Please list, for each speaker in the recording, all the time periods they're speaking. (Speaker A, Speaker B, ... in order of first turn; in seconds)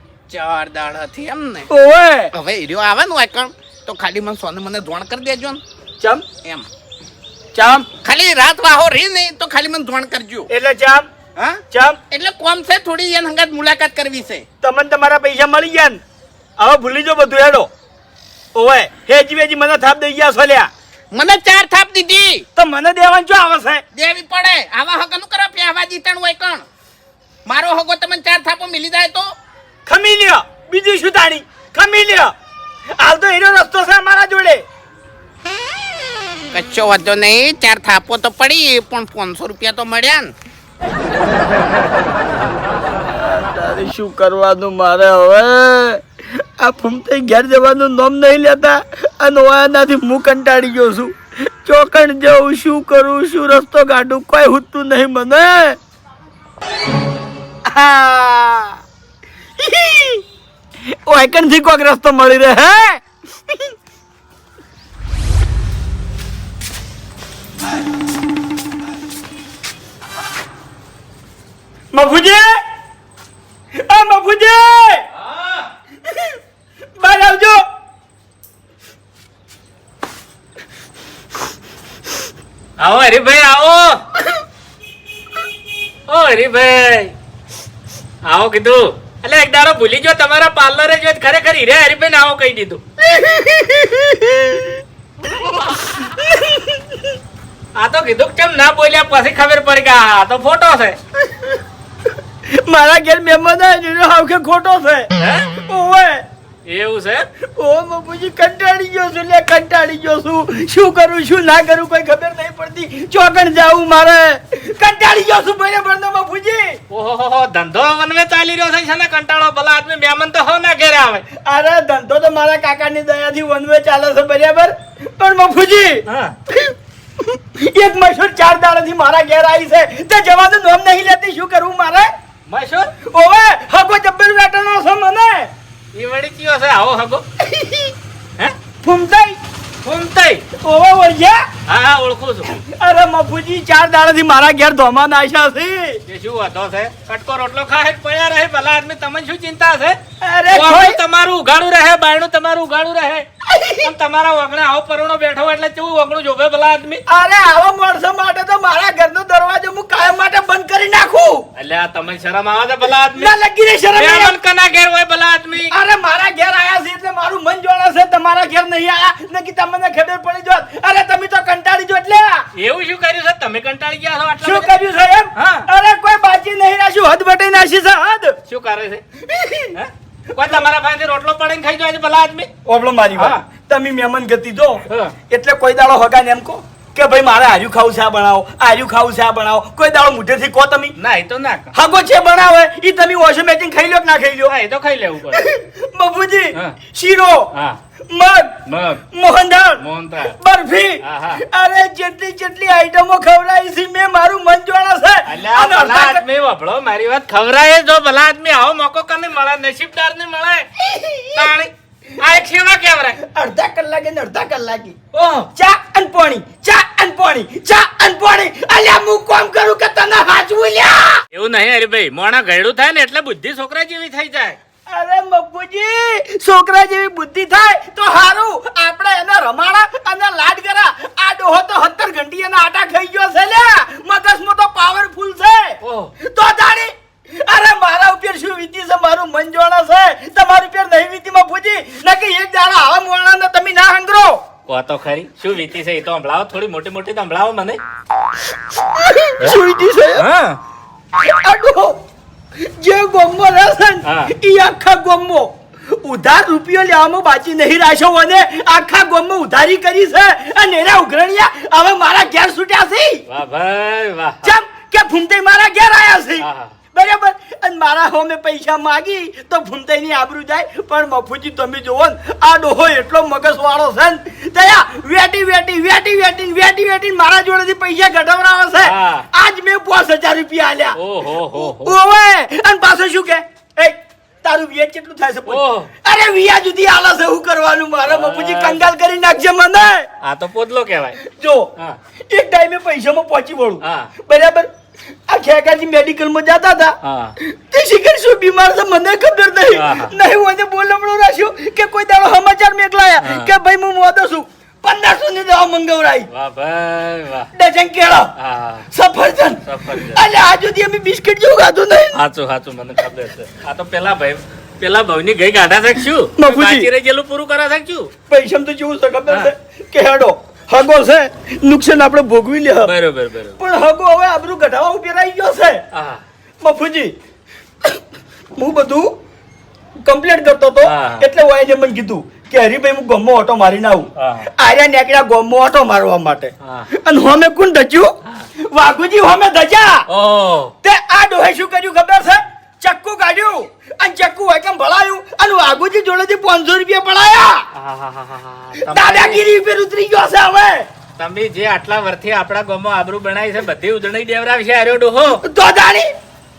Speaker A: 0.3-1.7, 2.4-5.6, 8.0-10.5, 11.4-14.4, 21.1-22.4, 23.9-26.7, 27.5-29.4, 36.5-40.3
Speaker B: 1.7-2.3, 6.0-6.2, 7.5-7.9, 10.5-11.1, 11.7-12.0, 14.6-16.0, 16.6-17.7, 18.6-20.7, 22.6-23.8, 29.9-32.3, 33.0-34.6, 43.2-46.0, 46.6-51.1, 51.7-55.8, 57.7-58.8, 59.6-60.2, 61.1-63.0, 71.9-72.5, 73.8-75.0, 77.0-77.6, 93.1-94.7, 96.2-96.7, 102.5-106.2, 107.6-116.8, 121.5-126.0, 127.6-132.1, 133.0-135.5, 137.5-137.9, 138.8-139.4, 140.6-141.4, 142.7-146.0, 150.2-151.0, 153.5-153.9, 157.1-161.4, 163.2-164.3, 165.7-172.4, 174.4-178.4, 179.3-179.7, 182.7-190.9, 191.7-194.5, 195.3-197.5, 198.1-198.6, 199.1-199.8, 200.4-206.2, 210.9-211.5, 213.2-221.2, 224.9-236.9, 237.5-244.4, 249.0-250.3, 251.2-251.9, 252.6-263.2, 264.4-290.1, 291.2-291.7, 292.3-294.7, 295.3-306.3, 307.6-308.3, 308.9-309.6, 310.1-312.2, 316.4-316.9, 318.3-322.9, 323.6-325.8, 326.6-327.1, 328.6-329.1, 330.1-338.1, 338.7-340.1, 340.8-347.6, 348.9-350.9, 355.5-356.1
Speaker C: 82.8-84.0, 86.1-87.1, 88.3-92.8, 97.8-101.0, 105.2-105.5, 106.7-107.3, 116.9-121.2, 126.1-126.3, 132.5-132.9, 135.9-137.2, 139.8-140.4, 141.7-142.5, 146.1-150.0, 150.5-153.3, 153.8-157.0, 161.6-163.3, 163.9-165.7, 172.6-174.7, 175.4-175.7, 178.5-179.0, 179.7-182.5, 183.1-183.4, 184.9-185.1, 191.0-191.7, 194.5-195.5, 198.7-199.0, 199.8-200.4, 201.0-201.4, 205.3-210.8, 211.3-213.2, 215.1-215.5, 221.3-224.6, 235.8-236.1, 244.7-247.8, 250.2-250.6, 254.1-254.3, 263.3-264.5, 266.4-266.7, 278.9-279.2, 281.0-282.0, 285.5-285.9, 288.1-288.9, 290.2-291.2, 293.8-294.1, 297.0-297.4, 299.7-300.1, 303.2-303.5, 306.3-307.5, 308.4-308.9, 309.6-310.2, 312.1-318.1, 322.8-323.6, 325.9-326.2, 330.9-331.3, 334.2-334.5, 340.1-340.7, 347.8-349.4, 351.2-355.4